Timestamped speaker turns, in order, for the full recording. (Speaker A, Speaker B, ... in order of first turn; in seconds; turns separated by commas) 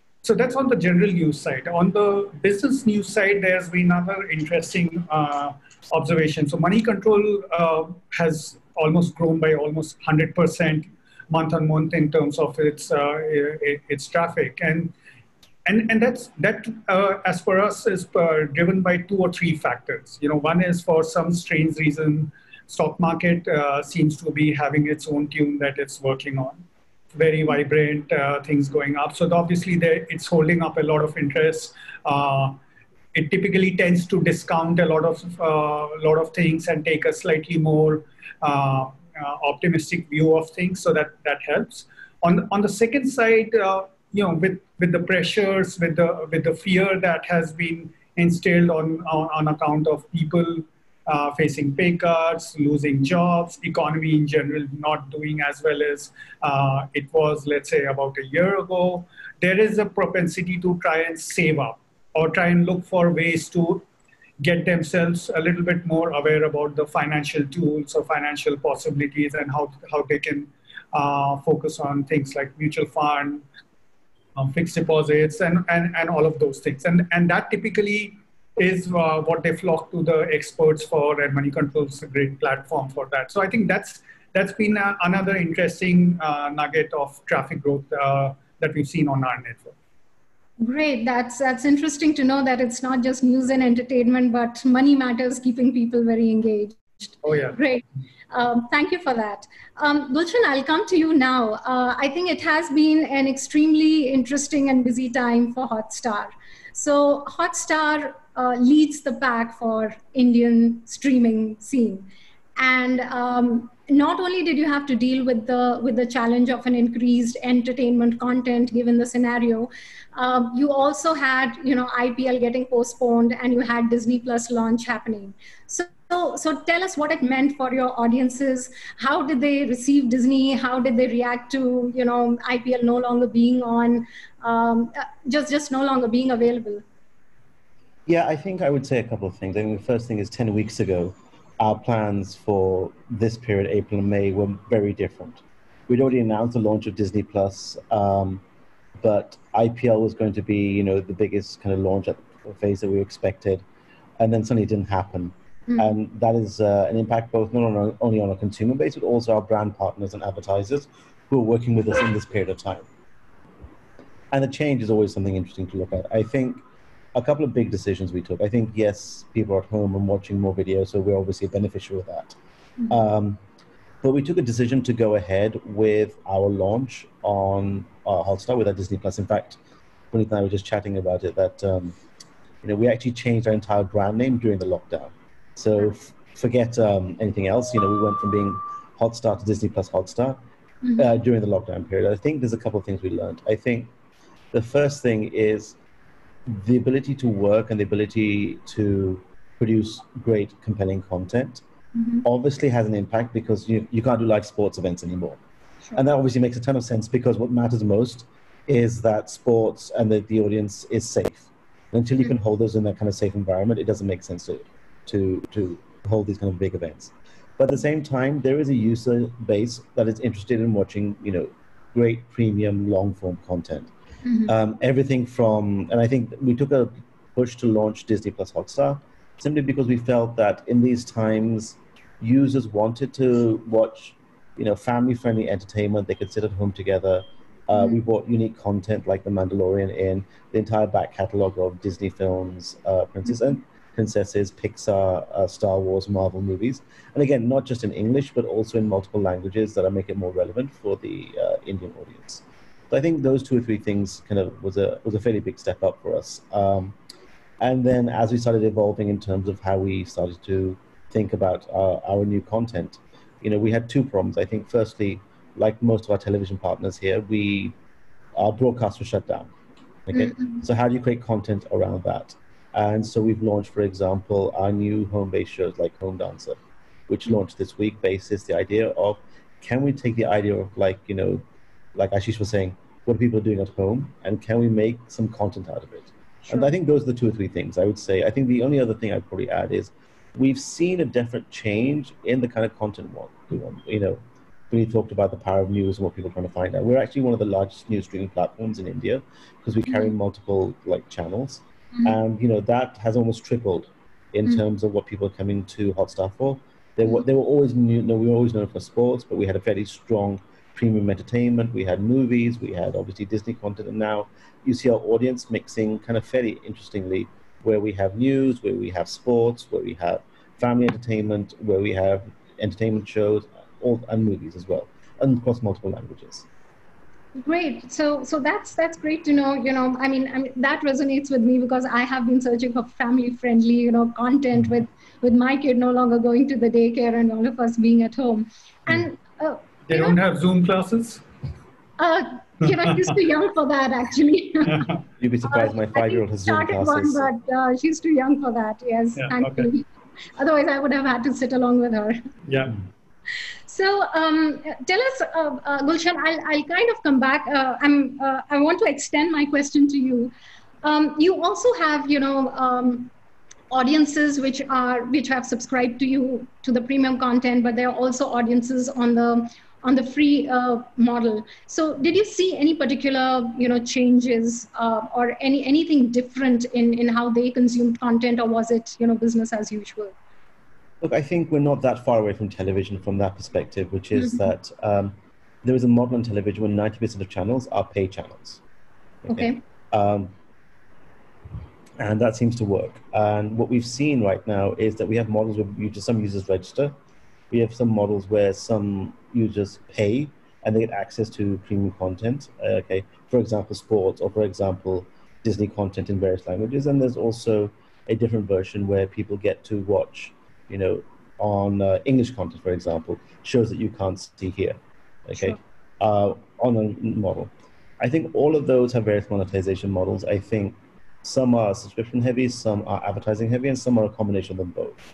Speaker A: 0.2-14.9, Speaker A: 15.7-26.6, Speaker A: 27.1-32.6, Speaker A: 33.1-63.9, Speaker A: 64.4-73.5, Speaker A: 74.4-89.8, Speaker B: 90.6-136.8, Speaker A: 97.2-97.6, Speaker C: 138.1-148.4, Speaker C: 149.0-153.6, Speaker C: 154.2-162.9, Speaker B: 155.7-155.9, Speaker C: 164.3-166.6, Speaker C: 167.2-172.4, Speaker C: 172.9-173.4, Speaker C: 174.0-179.6, Speaker C: 180.1-182.0, Speaker C: 182.6-190.4, Speaker B: 190.8-191.1, Speaker C: 191.0-193.9, Speaker C: 194.5-195.8, Speaker C: 196.5-201.6, Speaker B: 201.9-202.2, Speaker C: 202.2-205.4, Speaker C: 205.9-223.9, Speaker B: 224.2-224.5, Speaker C: 224.5-257.0, Speaker C: 257.6-267.8, Speaker C: 268.4-269.5, Speaker C: 270.1-281.4, Speaker B: 270.1-270.6, Speaker C: 281.9-326.4, Speaker B: 299.9-300.1, Speaker B: 327.4-340.2, Speaker A: 339.9-341.2, Speaker B: 342.0-344.9, Speaker C: 345.2-347.3, Speaker B: 345.4-352.2, Speaker A: 349.2-349.7, Speaker A: 352.5-352.8, Speaker B: 353.7-363.1, Speaker B: 363.7-380.1, Speaker C: 381.0-388.6, Speaker C: 389.2-390.3, Speaker B: 389.3-389.6, Speaker C: 392.0-396.9, Speaker C: 397.5-425.0